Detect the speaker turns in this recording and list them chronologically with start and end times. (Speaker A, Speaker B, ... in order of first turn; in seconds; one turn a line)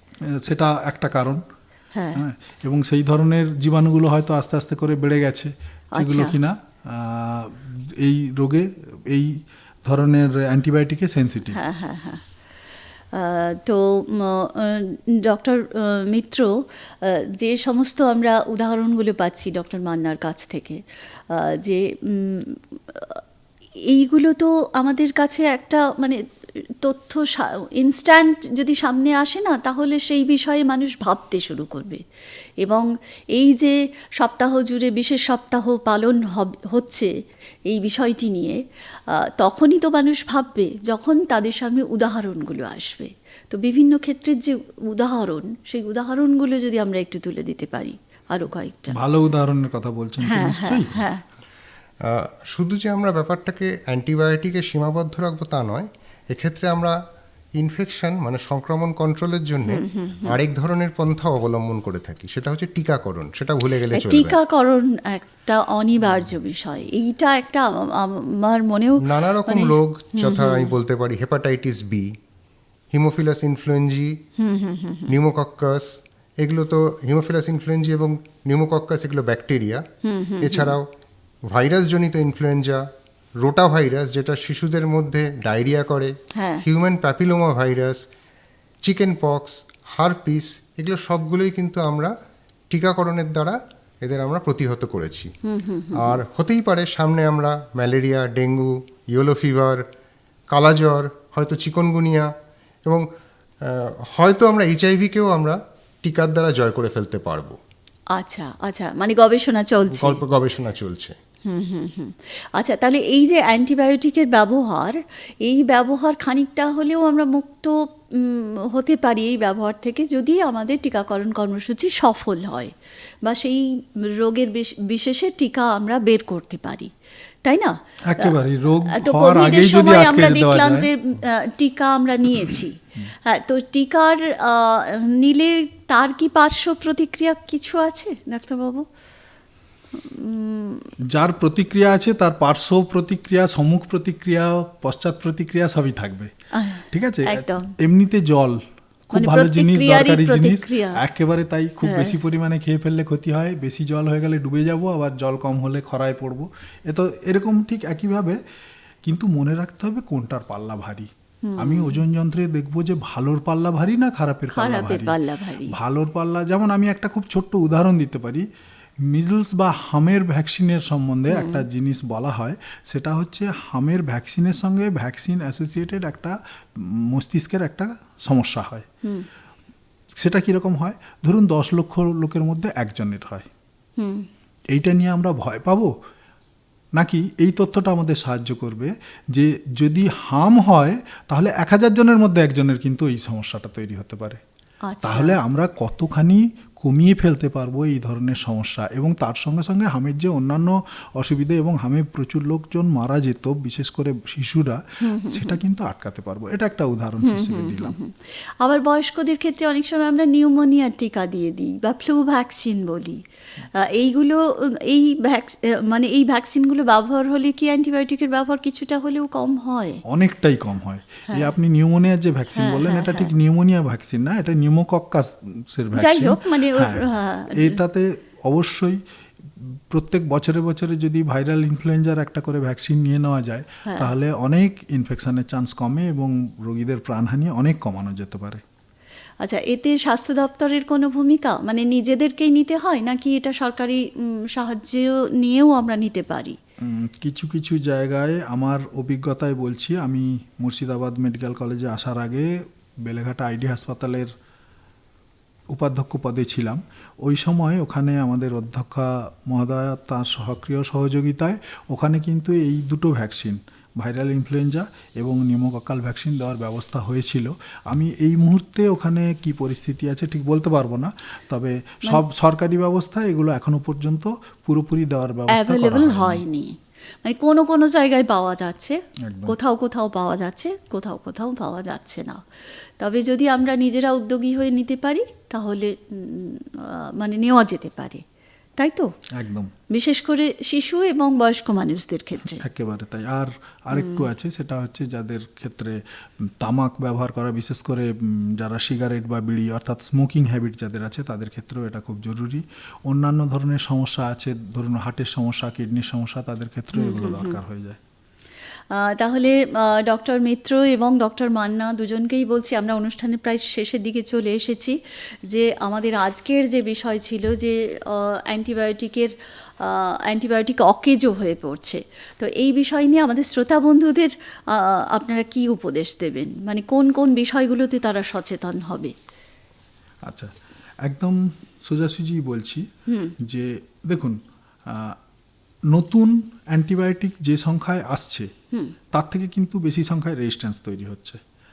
Speaker A: 0.3-1.4
Speaker B: 1.9-2.2
Speaker A: 2.1-11.6
Speaker B: 6.0-6.3
Speaker B: 11.5-12.2
Speaker B: 13.1-16.5
Speaker B: 17.0-20.8
Speaker B: 21.3-23.2
Speaker B: 23.9-26.2
Speaker B: 26.8-32.0
Speaker B: 32.6-37.1
Speaker B: 37.7-49.0
Speaker A: 48.9-51.0
Speaker B: 50.2-51.2
Speaker C: 52.0-57.0
Speaker C: 57.6-64.3
Speaker B: 59.7-60.4
Speaker B: 63.9-70.7
Speaker C: 69.0-72.1
Speaker C: 72.9-74.2
Speaker B: 74.4-75.1
Speaker C: 75.1-79.8
Speaker B: 80.0-80.7
Speaker C: 80.4-80.9
Speaker C: 81.5-82.8
Speaker C: 83.4-88.0
Speaker B: 86.3-86.6
Speaker C: 88.8-92.1
Speaker C: 92.7-95.3
Speaker B: 95.4-96.2
Speaker C: 96.0-99.8
Speaker C: 100.5-102.3
Speaker C: 103.6-107.6
Speaker B: 108.1-110.2
Speaker C: 109.9-111.2
Speaker B: 111.5-122.7
Speaker B: 123.2-126.9
Speaker B: 127.4-128.3
Speaker A: 128.1-130.9
Speaker B: 128.9-138.8
Speaker B: 140.0-140.8
Speaker A: 141.1-146.3
Speaker B: 146.5-147.7
Speaker A: 146.9-158.4
Speaker B: 149.1-151.0
Speaker B: 151.8-152.2
Speaker A: 159.0-165.2
Speaker B: 161.4-162.0
Speaker B: 164.5-165.7
Speaker A: 165.7-168.4
Speaker A: 169.1-178.8
Speaker B: 171.3-171.6
Speaker A: 180.2-183.5
Speaker B: 184.0-184.3
Speaker A: 184.7-185.9
Speaker A: 186.9-194.4
Speaker B: 194.9-195.4
Speaker A: 195.0-207.9
Speaker B: 205.0-205.6
Speaker B: 207.2-213.2
Speaker B: 213.8-220.0
Speaker A: 220.1-229.0
Speaker B: 222.6-223.3
Speaker B: 225.9-227.8
Speaker A: 229.6-238.6
Speaker B: 233.8-234.1
Speaker B: 239.4-246.6
Speaker A: 246.8-254.3
Speaker A: 255.7-276.4
Speaker B: 275.5-282.4
Speaker A: 279.2-279.6
Speaker B: 283.0-288.2
Speaker B: 288.8-289.1
Speaker A: 289.4-289.7
Speaker B: 289.9-292.6
Speaker A: 292.6-308.0
Speaker B: 293.9-294.2
Speaker B: 306.9-307.6
Speaker B: 308.9-329.1
Speaker A: 330.2-332.9
Speaker B: 333.1-333.3
Speaker A: 333.4-335.2
Speaker A: 335.9-338.5
Speaker A: 339.1-341.4